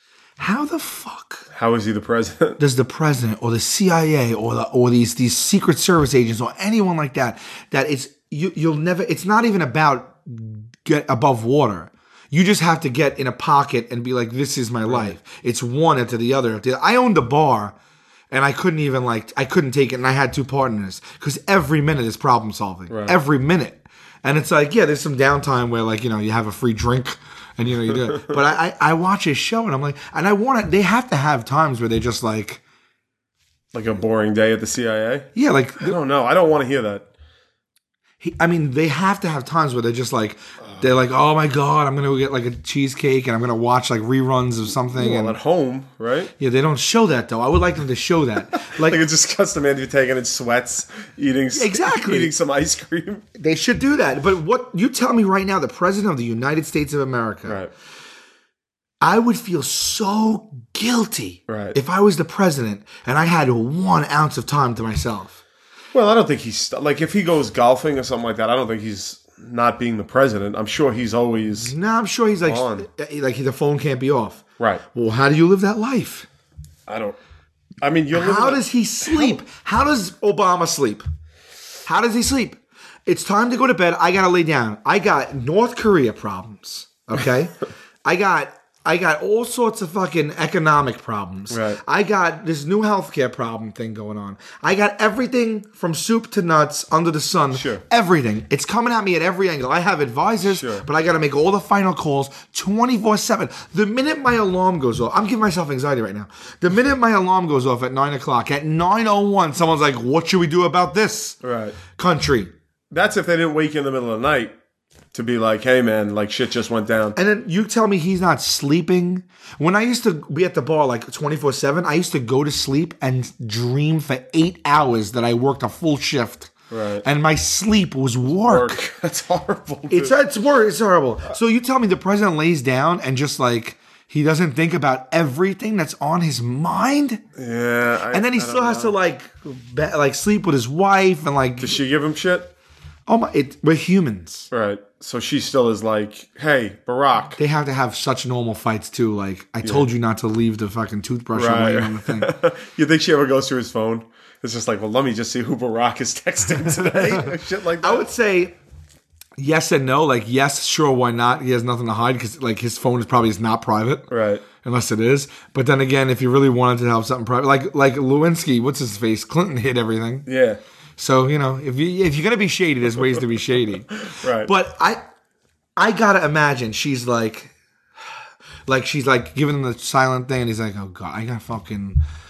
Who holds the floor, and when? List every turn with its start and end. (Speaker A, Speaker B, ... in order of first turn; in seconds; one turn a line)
Speaker A: 0.4-1.5
Speaker B: 1.5-2.6
Speaker A: 2.6-17.8
Speaker B: 14.9-15.1
Speaker A: 18.3-32.6
Speaker B: 22.9-23.2
Speaker B: 33.7-37.1
Speaker A: 35.4-36.0
Speaker A: 38.2-45.4
Speaker B: 40.6-40.9
Speaker B: 44.9-46.3
Speaker A: 46.4-49.0
Speaker B: 48.6-53.2
Speaker A: 51.5-52.3
Speaker A: 53.4-57.6
Speaker B: 57.5-57.7
Speaker A: 59.0-65.4
Speaker B: 61.5-61.8
Speaker B: 65.9-71.7
Speaker A: 71.5-76.3
Speaker B: 72.5-72.9
Speaker B: 76.9-77.2
Speaker B: 77.8-79.4
Speaker A: 78.1-81.1
Speaker A: 81.9-111.4
Speaker B: 91.5-91.8
Speaker B: 97.5-97.8
Speaker B: 100.5-100.8
Speaker B: 111.4-111.8
Speaker A: 112.0-112.5
Speaker B: 112.9-114.5
Speaker B: 115.1-117.2
Speaker A: 117.2-126.5
Speaker B: 126.7-127.1
Speaker A: 127.0-128.8
Speaker B: 128.3-130.1
Speaker A: 129.9-137.2
Speaker B: 137.4-138.9
Speaker A: 138.1-141.8
Speaker B: 141.6-142.5
Speaker A: 143.1-144.5
Speaker B: 144.5-147.4
Speaker A: 147.4-152.3
Speaker B: 149.6-149.9
Speaker B: 151.3-158.1
Speaker A: 156.6-158.6
Speaker A: 159.4-164.1
Speaker B: 164.1-164.4
Speaker A: 164.6-170.3
Speaker B: 170.3-170.6
Speaker A: 171.0-175.0
Speaker B: 174.0-174.5
Speaker A: 175.8-177.5
Speaker A: 178.7-182.0